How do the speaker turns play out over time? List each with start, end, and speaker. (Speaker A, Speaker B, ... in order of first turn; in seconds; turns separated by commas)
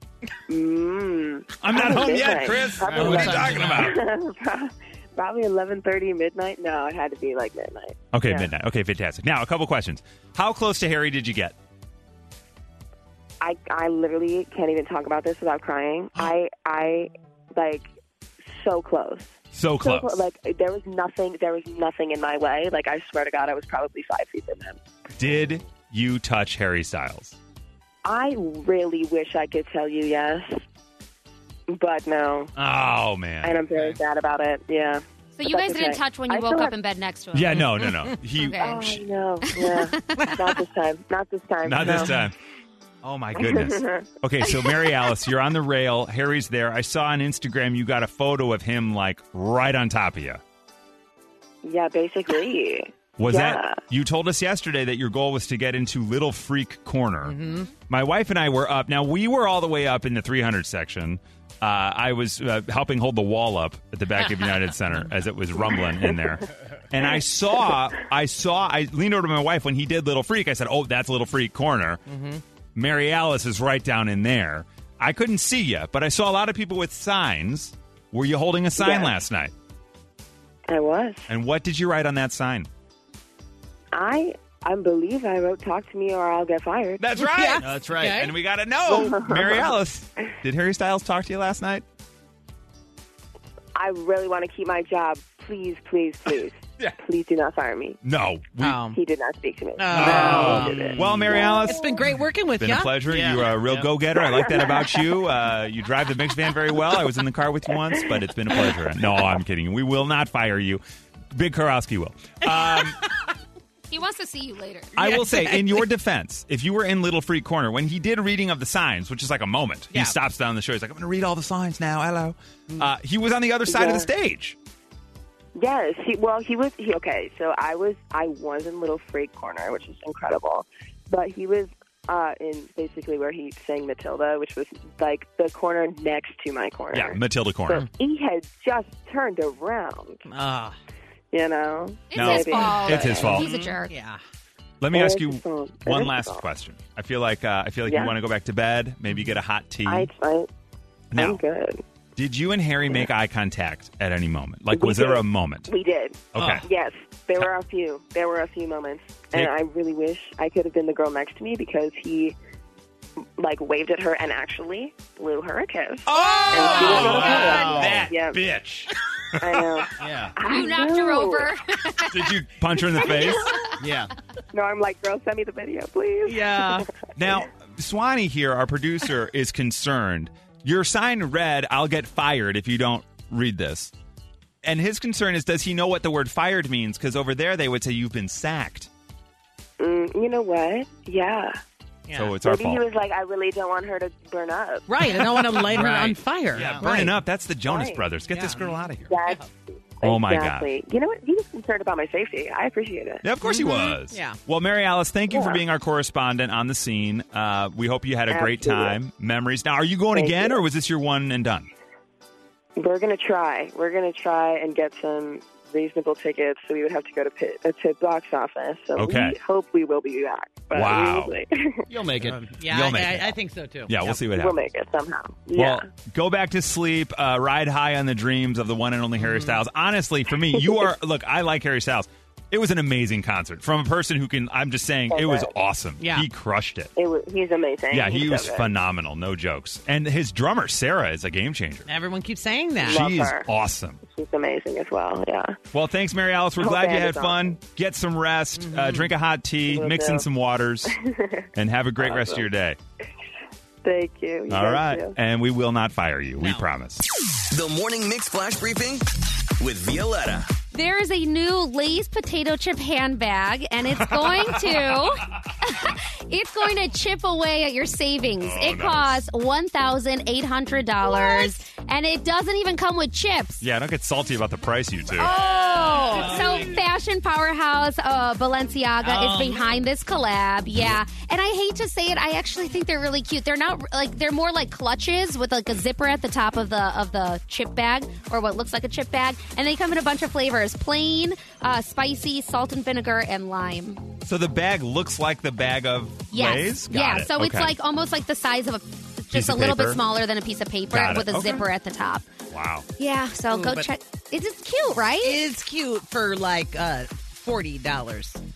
Speaker A: 0.5-8.5, Speaker B: 1.6-4.0, Speaker C: 2.8-3.7, Speaker D: 3.0-3.8, Speaker B: 8.1-11.5, Speaker A: 13.4-17.9, Speaker A: 18.5-24.8, Speaker B: 19.5-20.2, Speaker B: 25.1-27.4, Speaker A: 28.0-30.6, Speaker A: 31.7-32.5, Speaker B: 32.5-33.6, Speaker A: 33.4-36.7, Speaker E: 35.3-38.9, Speaker B: 37.3-39.0, Speaker A: 38.6-42.1, Speaker E: 39.4-40.2, Speaker B: 41.6-42.3, Speaker D: 41.8-42.1, Speaker B: 43.0-50.4, Speaker A: 43.4-44.0, Speaker A: 51.6-53.8, Speaker B: 53.2-57.4, Speaker D: 57.2-57.7, Speaker B: 57.9-72.0, Speaker D: 72.1-72.4, Speaker B: 72.8-79.5, Speaker A: 78.8-79.1, Speaker A: 80.7-81.3, Speaker B: 81.3-82.7, Speaker A: 83.9-87.0, Speaker B: 87.0-91.8, Speaker D: 87.2-88.3, Speaker C: 87.6-88.3, Speaker A: 88.8-89.8, Speaker A: 93.7-98.0, Speaker B: 98.0-98.8, Speaker D: 98.6-99.0, Speaker A: 98.9-101.8, Speaker D: 99.8-100.8, Speaker C: 99.9-101.5, Speaker B: 99.9-101.8, Speaker D: 101.6-103.0, Speaker B: 102.6-113.0, Speaker C: 103.1-103.6, Speaker A: 104.1-105.1, Speaker D: 112.5-113.2, Speaker E: 113.9-115.2, Speaker B: 115.0-124.5, Speaker D: 115.0-115.8, Speaker A: 123.7-124.1, Speaker A: 125.5-140.2, Speaker B: 136.9-137.8, Speaker D: 140.3-140.8, Speaker A: 141.3-143.4, Speaker E: 142.1-143.9, Speaker B: 142.1-143.5, Speaker D: 143.3-144.2, Speaker B: 144.8-150.1, Speaker A: 144.9-146.4, Speaker A: 147.8-148.1, Speaker A: 149.8-150.5, Speaker B: 151.1-151.4, Speaker A: 151.1-151.8, Speaker B: 152.2-155.7, Speaker A: 154.7-162.4, Speaker B: 156.3-156.6, Speaker A: 163.4-168.4, Speaker B: 166.1-169.6, Speaker E: 166.1-166.6, Speaker D: 166.6-167.6, Speaker C: 166.9-168.1, Speaker A: 169.4-171.5, Speaker C: 170.0-170.3, Speaker E: 170.4-172.3, Speaker B: 172.1-173.5, Speaker E: 173.3-173.8, Speaker C: 173.8-174.1, Speaker A: 174.5-176.9, Speaker D: 176.2-176.8, Speaker B: 177.2-183.9, Speaker B: 184.6-188.9, Speaker A: 189.8-191.6, Speaker D: 192.1-192.3, Speaker B: 192.1-192.8, Speaker A: 192.4-194.8, Speaker D: 194.9-197.1, Speaker C: 195.6-196.9, Speaker B: 196.5-199.1, Speaker A: 197.7-198.0, Speaker D: 198.3-198.7, Speaker A: 199.1-203.2, Speaker B: 200.0-200.7, Speaker B: 203.2-211.7, Speaker D: 203.4-204.4, Speaker A: 205.3-205.6, Speaker A: 208.3-208.9, Speaker A: 210.1-210.6, Speaker A: 212.8-221.9, Speaker B: 218.9-219.4, Speaker B: 220.7-221.3, Speaker C: 221.9-222.4, Speaker D: 222.3-224.2, Speaker B: 222.7-223.3, Speaker B: 223.9-224.6, Speaker A: 224.3-225.8, Speaker B: 225.5-236.9, Speaker D: 229.2-229.6, Speaker A: 230.6-230.8, Speaker A: 235.1-235.5, Speaker D: 236.0-236.3, Speaker A: 236.9-238.7, Speaker B: 237.9-241.9, Speaker D: 241.8-243.0, Speaker A: 242.8-243.5, Speaker B: 242.8-244.0, Speaker A: 244.0-245.6, Speaker B: 245.7-250.9, Speaker A: 246.6-247.5, Speaker D: 248.6-249.1, Speaker A: 249.7-250.3, Speaker A: 250.9-252.5, Speaker B: 251.5-252.8, Speaker A: 253.8-255.2, Speaker B: 254.5-257.0, Speaker D: 256.4-256.6, Speaker F: 257.5-259.1, Speaker F: 259.6-260.5, Speaker E: 260.7-273.6, Speaker B: 264.0-264.9, Speaker B: 268.4-269.2, Speaker D: 271.1-271.4, Speaker B: 273.6-275.3, Speaker E: 275.1-294.1, Speaker D: 275.3-276.7, Speaker D: 279.0-279.7, Speaker B: 294.2-297.7, Speaker E: 296.3-302.2, Speaker B: 299.3-300.0, Speaker B: 300.9-301.6, Speaker B: 302.5-302.9, Speaker E: 303.0-305.4, Speaker D: 303.5-303.9, Speaker D: 305.2-308.4